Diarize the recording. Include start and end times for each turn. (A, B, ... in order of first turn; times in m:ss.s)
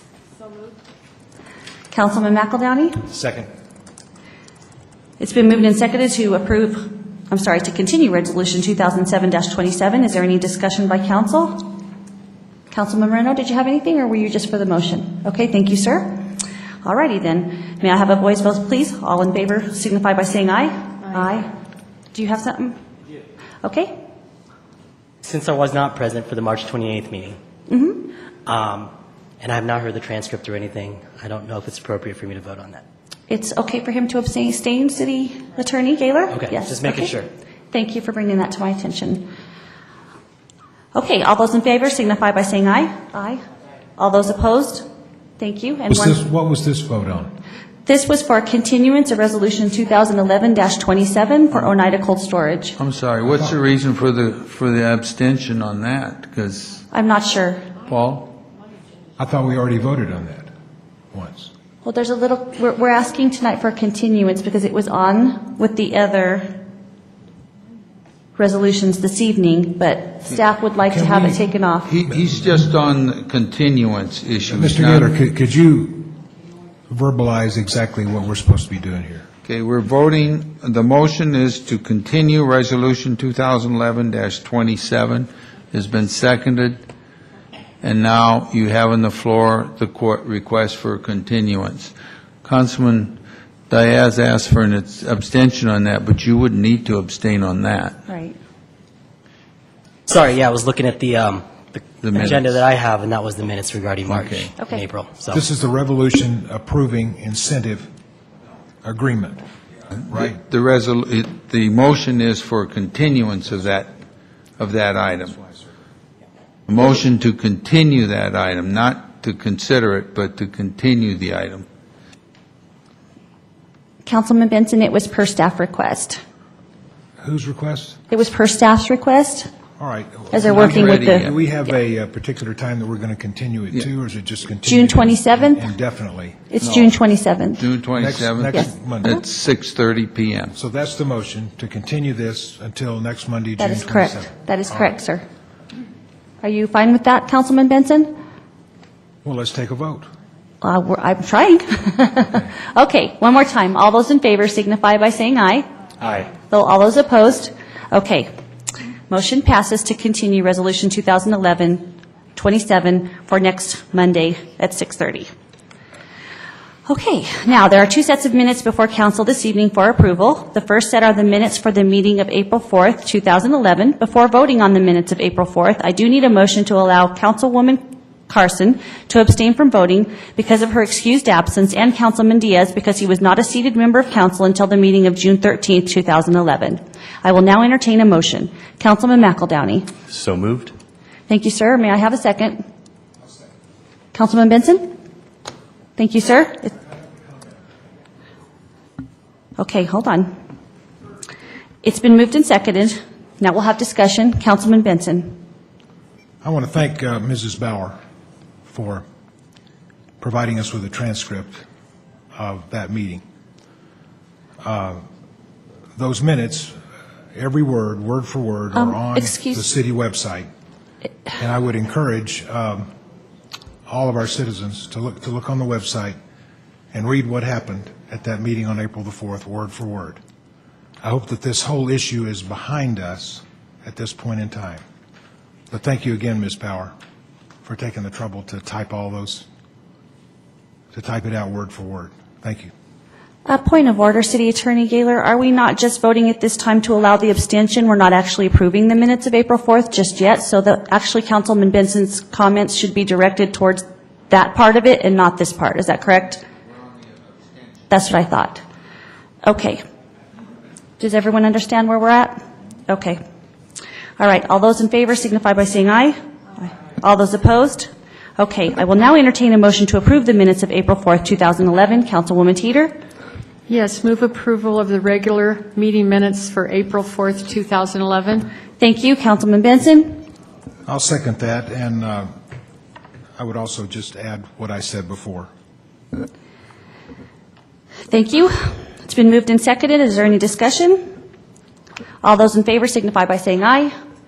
0:01.9-0:03.0 A
0:03.1-0:03.5 B
0:05.2-0:11.8 A
0:12.7-0:16.2 A
0:16.8-0:21.5 A
0:22.1-0:22.8 A
0:23.6-0:23.9 A
0:25.2-0:27.4 C
0:27.7-0:28.1 A
0:28.4-0:32.8 C
0:33.3-0:37.1 A
0:36.3-0:37.3 C
0:37.7-0:39.3 A
0:40.9-0:43.4 A
0:44.0-0:44.8 A
0:45.4-0:46.2 A
0:45.9-0:47.3 B
0:47.8-0:52.8 A
0:52.8-0:56.8 D
0:53.2-0:53.6 B
0:56.9-0:57.8 A
0:57.8-0:58.4 D
0:59.2-1:00.5 B
1:01.1-1:01.5 B
1:01.8-1:06.6 A
1:08.4-1:11.9 A
1:10.8-1:11.5 B
1:11.9-1:15.1 D
1:14.5-1:16.2 B
1:16.9-1:19.2 B
1:19.4-1:26.8 D
1:27.8-1:31.9 D
1:32.4-1:38.0 D
1:38.1-1:38.4 A
1:40.1-1:45.4 C
1:42.0-1:42.6 D
1:44.0-1:44.5 D
1:44.6-1:44.8 A
1:45.3-1:47.9 B
1:48.8-1:49.4 B
1:50.0-1:53.9 D
1:54.6-1:55.4 D
1:56.7-2:01.6 D
2:04.0-2:06.2 A
2:07.2-2:08.0 B
2:08.1-2:09.5 A
2:09.8-2:16.6 B
2:10.3-2:11.3 A
2:10.4-2:11.3 D
2:14.6-2:15.6 A
2:16.5-2:17.6 A
2:16.6-2:16.9 D
2:17.6-2:20.5 D
2:18.0-2:19.2 B
2:20.5-2:24.9 B
2:23.6-2:25.2 A
2:26.4-2:28.1 A
2:29.2-2:30.1 B
2:30.6-2:35.6 A
2:36.5-2:38.3 A
2:39.1-2:45.3 A
2:46.9-3:09.9 A
3:10.1-3:10.5 D
3:11.3-3:12.6 A
3:14.1-3:14.9 A
3:16.0-3:16.7 A
3:19.6-3:20.3 A
3:21.8-3:25.4 A
3:26.4-3:28.0 B
3:28.7-3:29.0 B
3:30.2-3:31.6 B
3:32.3-3:33.2 B
3:34.6-3:35.0 B
3:36.0-3:36.8 B
3:37.3-3:40.5 B
3:38.7-3:39.6 A
3:41.3-3:42.9 B
3:43.9-3:46.2 B
3:46.9-3:50.2 B
3:51.0-3:54.8 B
3:55.7-3:56.9 B
3:57.6-3:59.5 B
4:00.9-4:02.7 B
4:03.4-4:16.4 A
4:17.9-4:18.6 A
4:19.4-4:19.8 A
4:21.0-4:23.2 A
4:24.2-4:33.0 A
4:33.7-4:38.5 E
4:38.8-4:40.3 A
4:40.8-4:42.3 B
4:43.4-4:45.5 B
4:48.1-4:51.0 A
4:52.2-4:53.9 A